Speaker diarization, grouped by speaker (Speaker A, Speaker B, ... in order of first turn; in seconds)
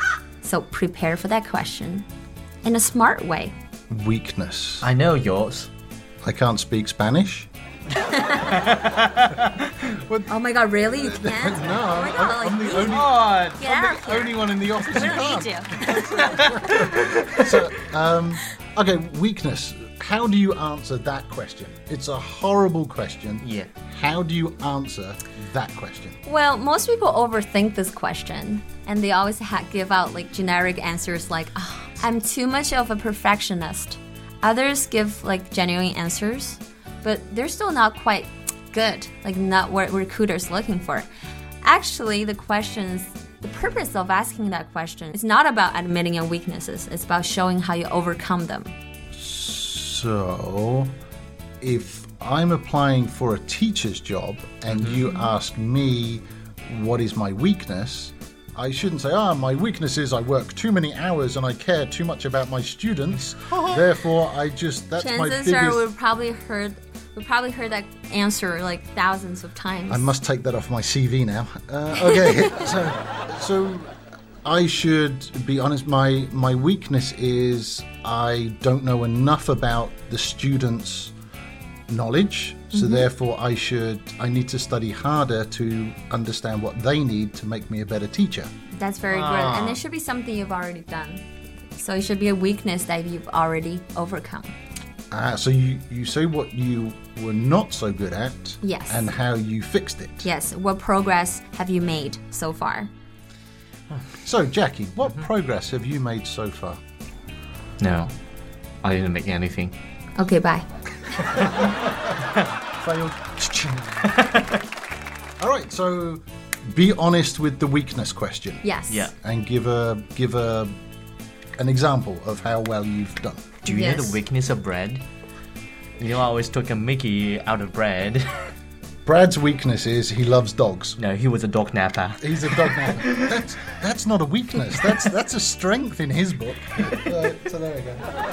Speaker A: 0.4-2.0, 2.6-3.5, 8.1-8.6, 10.3-13.0, 13.6-16.6, 26.2-41.1, 41.6-48.7, 65.0-70.1, 82.7-83.1, 88.7-94.5, 98.6-99.1, 100.2-102.9, 110.2-110.7, 118.6-119.1, 123.6-124.2
Speaker B: 3.9-4.9, 6.2-7.5, 9.9-26.2, 49.1-50.9, 51.6-65.9, 69.9-73.9, 74.4-81.1, 81.9-88.5, 89.1-89.8, 95.1-100.3, 104.2-106.8, 111.4-112.2, 112.8-114.0, 115.4-118.6, 119.2-120.8, 121.6-123.6, 129.0-131.0, 132.2-138.1
Speaker C: 4.8-5.7, 8.3-9.7, 12.8-13.8, 16.0-17.6, 23.4-23.7, 107.8-108.1, 108.8-109.7, 114.1-114.6, 118.9-119.1, 123.6-125.0, 126.0-128.4, 131.0-133.3